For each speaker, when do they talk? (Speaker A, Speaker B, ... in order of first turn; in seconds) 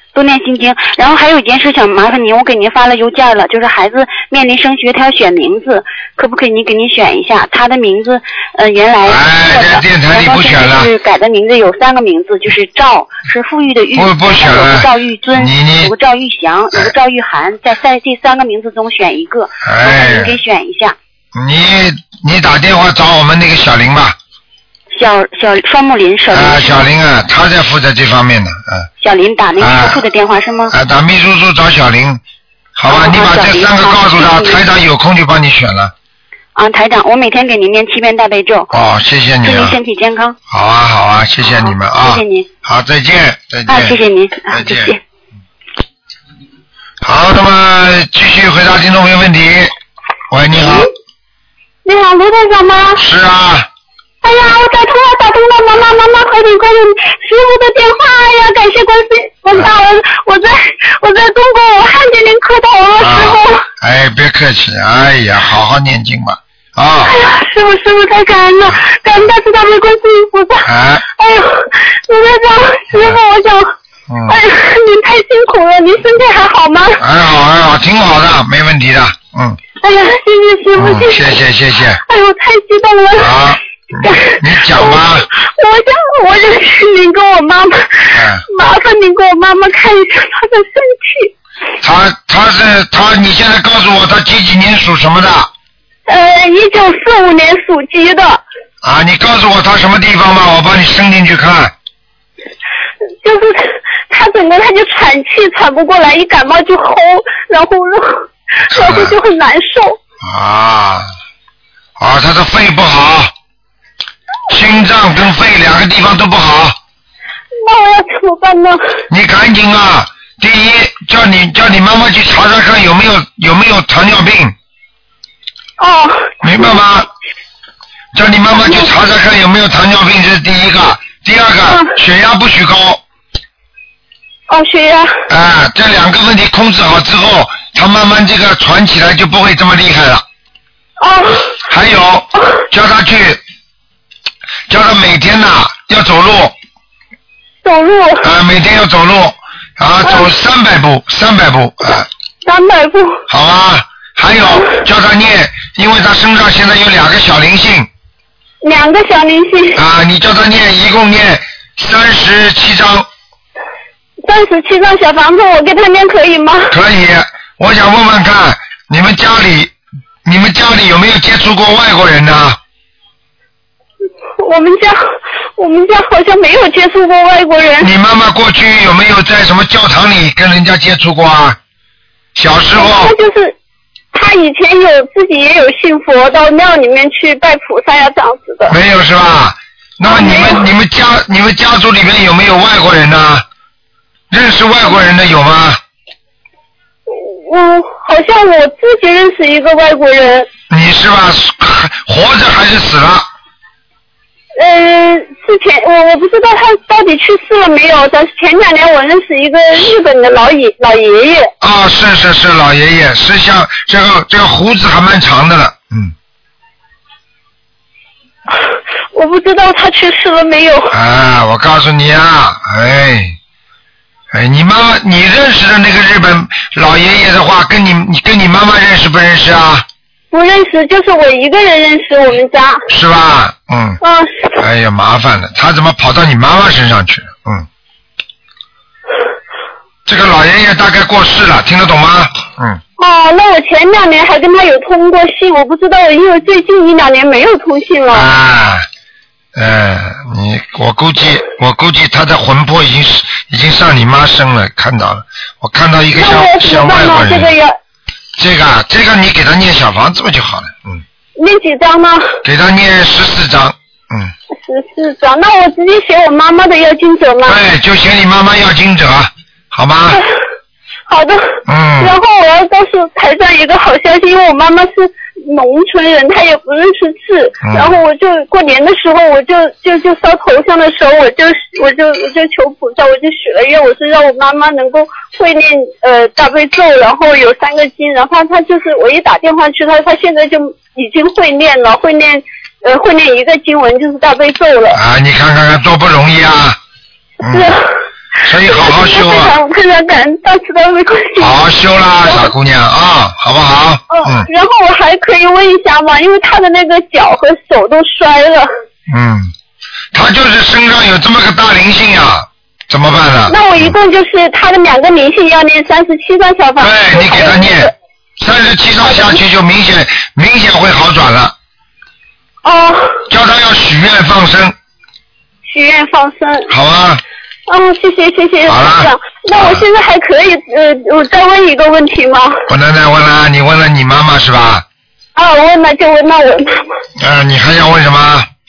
Speaker A: 0.1-21.0, 24.9-26.9, 29.0-30.7, 32.9-34.6, 36.5-38.7, 39.4-40.4, 41.4-42.5, 43.7-45.0
Speaker B: 9.0-10.9, 13.9-15.9, 19.6-20.4, 21.4-24.2, 26.3-28.9, 29.6-30.1, 30.7-32.2, 32.8-35.9, 38.7-39.8, 40.5-44.9, 47.0-49.7, 50.3-50.9, 53.0-53.7, 63.0-67.2, 70.7-71.0, 72.9-73.2, 74.1-74.4, 77.0-79.6, 80.8-82.0, 83.2-85.3, 88.1-88.5, 91.8-95.5, 98.8-101.7, 108.7-109.2, 110.2-111.1, 112.0-113.3, 114.5-116.8, 119.1-124.5, 126.4-127.1, 128.2-133.0, 135.3-140.2, 141.7-143.4, 144.7-146.6, 148.2-152.1, 153.3-157.9, 159.8-163.1, 166.7-169.7, 170.2-172.6, 177.8-181.6, 182.4-183.2, 188.7-193.4, 194.3-195.8, 200.7-203.3, 211.6-216.1, 220.9-223.4, 224.3-229.9, 232.9-234.0, 234.6-237.7, 240.1-242.8, 248.1-248.9, 249.6-257.6, 258.4-261.0, 262.4-264.3, 267.4-270.2, 271.7-272.2, 277.6-278.0, 294.9-296.8, 297.4-297.8, 298.4-299.6, 301.4-304.5, 309.1-309.5, 310.1-313.9, 316.8-321.6, 323.3-324.8, 326.7-327.2, 328.7-329.9, 332.7-334.9, 337.2-338.5
Speaker C: 51.9-53.0, 54.2-63.6, 67.1-73.7, 74.3-77.0, 79.8-81.4, 82.0-91.3, 96.1-98.4, 103.2-110.0, 117.6-118.8, 125.8-126.8, 128.6-128.9, 134.5-135.2, 141.0-141.6, 147.6-148.3, 150.0-150.3, 152.4-153.2, 158.6-159.8, 164.2-166.7, 174.4-175.0, 175.6-177.9, 182.8-183.6, 184.1-188.8, 190.1-190.6, 197.1-200.5, 204.6-211.5, 219.1-220.9, 230.3-232.8, 234.0-234.6, 243.0-248.3, 256.1-257.8, 261.4-262.4, 264.5-267.6, 271.1-295.0, 297.4-297.9, 298.7-301.5, 302.3-302.5, 304.1-308.7, 313.5-317.9, 319.1-319.3, 322.6-323.2, 325.6-326.7, 327.7-332.6, 335.4-336.9